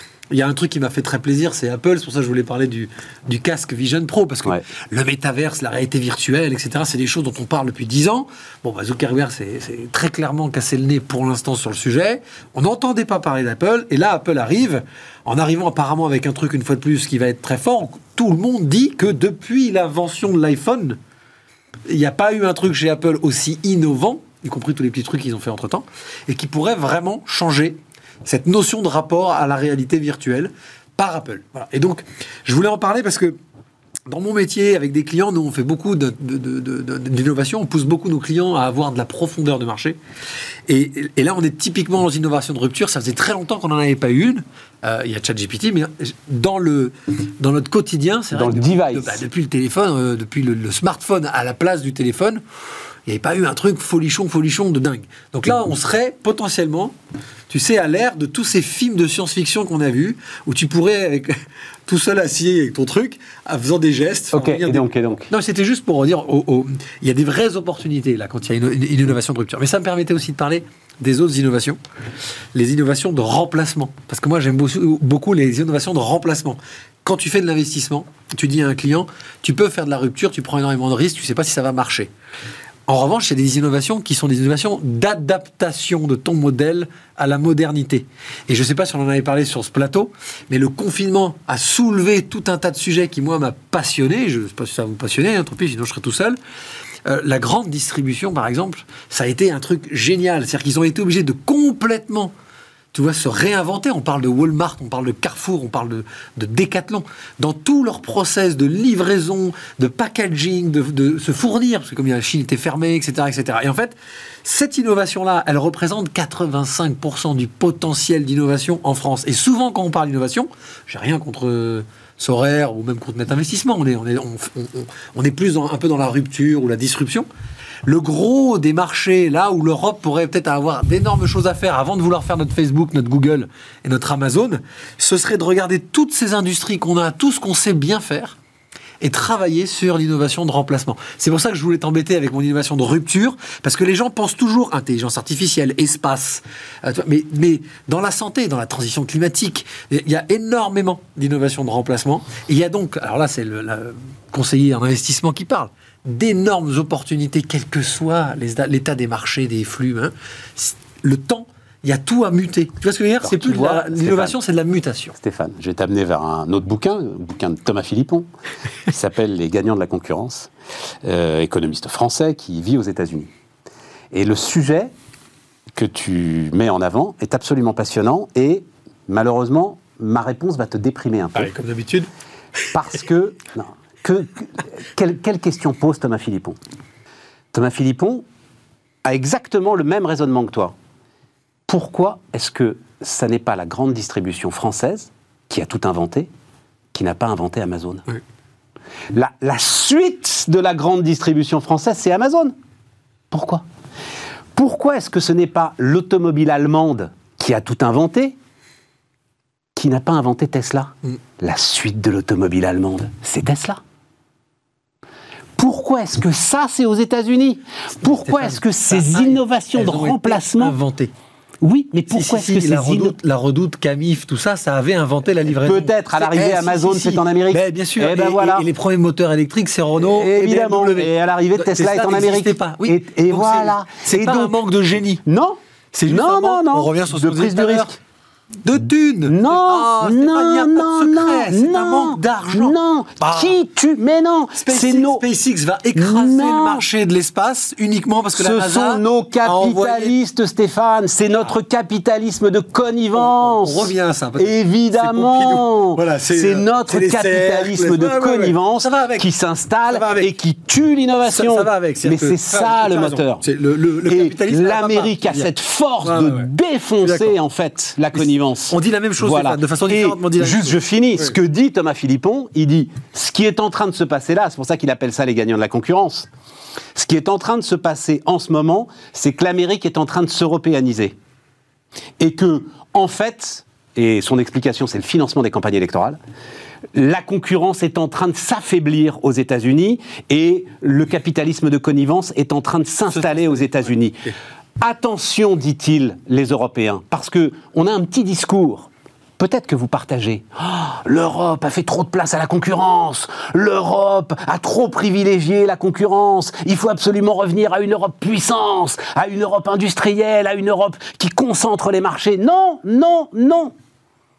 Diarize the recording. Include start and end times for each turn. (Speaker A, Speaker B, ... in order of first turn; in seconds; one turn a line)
Speaker A: 0.3-21.0
Speaker A: 21.9-33.4
Speaker A: 34.1-40.0
Speaker A: 40.7-52.4
Speaker B: 48.3-49.2
Speaker A: 53.0-56.9
Speaker A: 57.5-71.8
Speaker B: 64.3-65.3
Speaker A: 72.5-82.1
Speaker A: 82.9-96.4
Speaker A: 97.0-102.3
Speaker A: 102.9-127.3
Speaker A: 127.8-138.4
Speaker A: 139.0-165.2
Speaker B: 163.2-164.3
Speaker B: 165.1-168.3
Speaker B: 168.9-170.5
Speaker B: 171.0-173.3
Speaker B: 174.1-174.9
Speaker B: 175.7-181.5
Speaker A: 181.3-182.1
Speaker B: 182.7-186.6
Speaker B: 187.5-188.2
Speaker B: 189.0-190.7
Speaker B: 191.7-196.3
Speaker B: 196.9-198.1
Speaker B: 199.1-202.5
Speaker B: 203.3-203.6
Speaker B: 204.6-208.3
Speaker B: 209.8-213.8
Speaker B: 215.6-220.7
Speaker A: 218.2-221.1
Speaker B: 221.6-223.1
Speaker A: 222.1-235.2
Speaker B: 225.6-228.6
Speaker B: 230.0-234.6
Speaker B: 235.2-237.9
Speaker A: 235.9-237.9
Speaker A: 238.6-243.6
Speaker B: 239.2-245.2
Speaker A: 244.6-250.2
Speaker B: 245.9-246.8
Speaker B: 248.3-263.4
Speaker A: 253.2-259.3
Speaker A: 259.9-260.3
Speaker A: 261.2-265.5
Speaker B: 264.0-276.3
Speaker A: 266.0-266.5
Speaker A: 267.0-267.3
Speaker A: 268.1-271.4
Speaker B: 276.9-281.1
Speaker B: 282.2-286.2
Speaker B: 286.9-294.2
Speaker A: 293.1-293.8
Speaker B: 294.8-313.7